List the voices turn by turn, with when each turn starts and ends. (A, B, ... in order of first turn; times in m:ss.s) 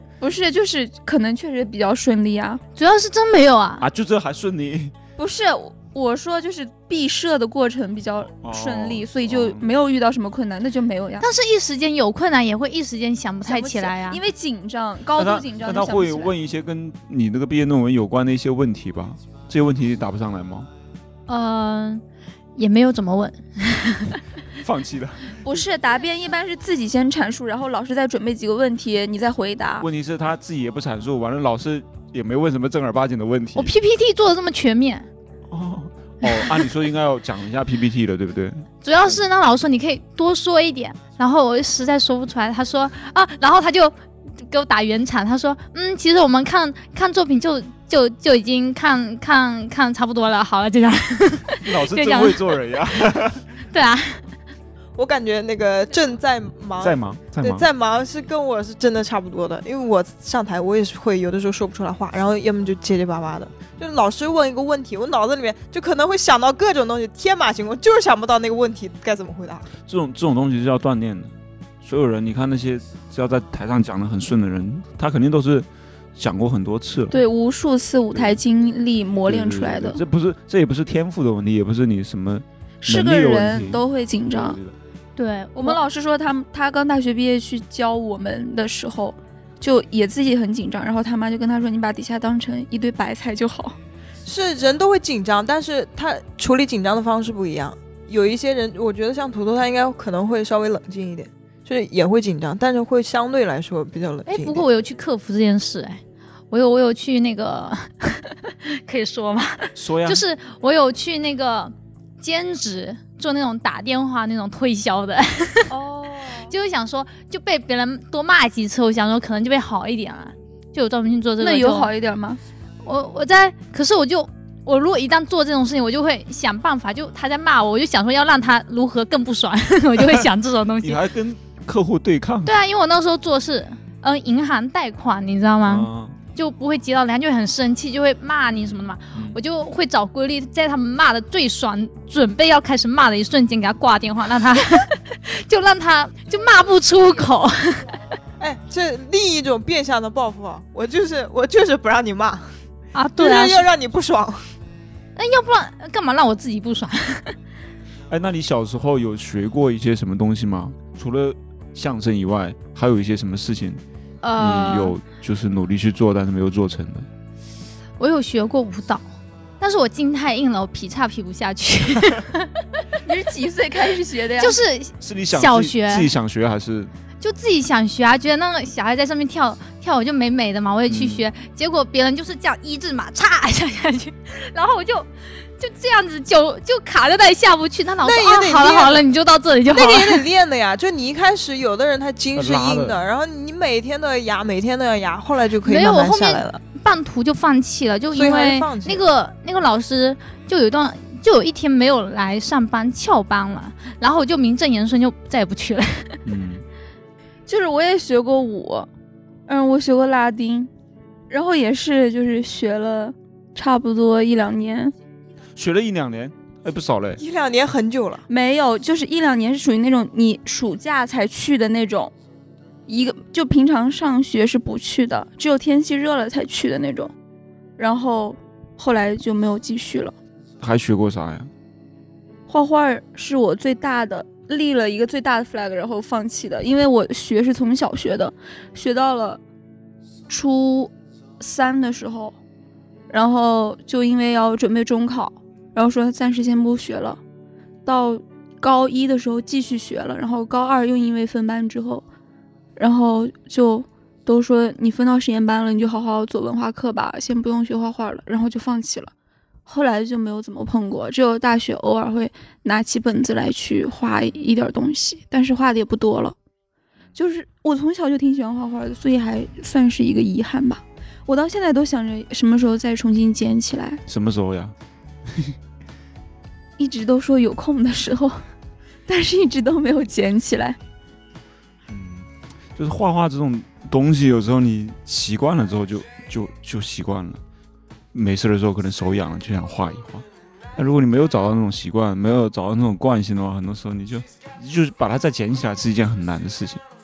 0:00.2-0:02.6 A
0:02.8-0:03.8 B
0:03.8-0:04.9 C
0:05.2-0:11.2 A
0:08.4-0:09.7 C
0:11.2-0:14.2 B
0:13.4-0:16.3 A
0:15.2-0:20.7 C
0:21.3-0:22.0 B
0:22.6-0:24.2 B
0:24.6-0:25.3 C
0:25.4-0:29.8 A
0:29.8-0:33.7 C
0:33.6-0:35.1 B
0:35.5-0:39.2 C
0:36.2-0:36.6 B
0:38.8-0:52.6 B
0:51.6-0:53.5 C
0:53.7-0:54.2 B
0:55.0-1:09.7 D
0:56.8-0:57.7 C
1:09.8-1:17.2 C
1:17.1-1:20.0 A
1:18.1-1:18.4 C
1:19.2-1:24.8 C
1:22.8-1:24.6 A
1:25.2-1:25.8 B
1:25.6-1:33.8 A
1:34.2-1:44.6 D
1:44.3-1:55.7 B
1:49.8-1:50.2 C
1:55.7-1:56.5 A
1:56.5-2:01.9 B
2:01.4-2:02.4 A
2:02.8-2:11.0 B
2:10.8-2:12.5 C
2:12.4-2:28.0 B
2:15.6-2:16.2 C
2:18.6-2:19.4 C
2:28.4-2:32.5 D
2:32.9-2:33.7 B
2:33.2-2:34.4 D
2:35.2-2:37.4 B
2:38.1-2:43.8 C
2:44.2-2:45.0 B
2:44.4-2:47.1 C
2:48.0-2:49.0 B
2:49.6-2:52.5 B
2:53.0-2:54.6 A
2:54.4-2:56.1 B
2:55.0-2:56.9 C
2:57.2-3:10.3 B
3:00.9-3:01.2 C
3:08.0-3:09.0 D
3:09.7-3:16.6 D
3:12.3-3:13.0 C
3:15.6-3:26.2 B
3:18.1-3:19.0 D
3:26.2-3:26.6 C
3:27.5-3:28.9 A
3:29.5-3:30.7 A
3:31.3-3:34.9 A
3:35.6-3:37.2 C
3:37.2-3:38.2 D
3:38.3-3:42.1 A
3:42.9-3:47.1 A
3:47.8-3:50.1 A
3:50.6-3:51.5 C
3:52.5-3:59.4 A
4:00.3-4:02.4 A
4:03.1-4:07.2 A
4:07.8-4:12.0 A
4:12.8-4:19.1 A
4:19.6-4:26.4 A
4:27.1-4:34.0 A
4:34.1-4:34.7 C
4:35.3-4:35.5 C
4:36.8-4:38.4 A
4:39.1-4:40.8 A
4:41.9-4:47.4 C
4:48.1-4:56.8 C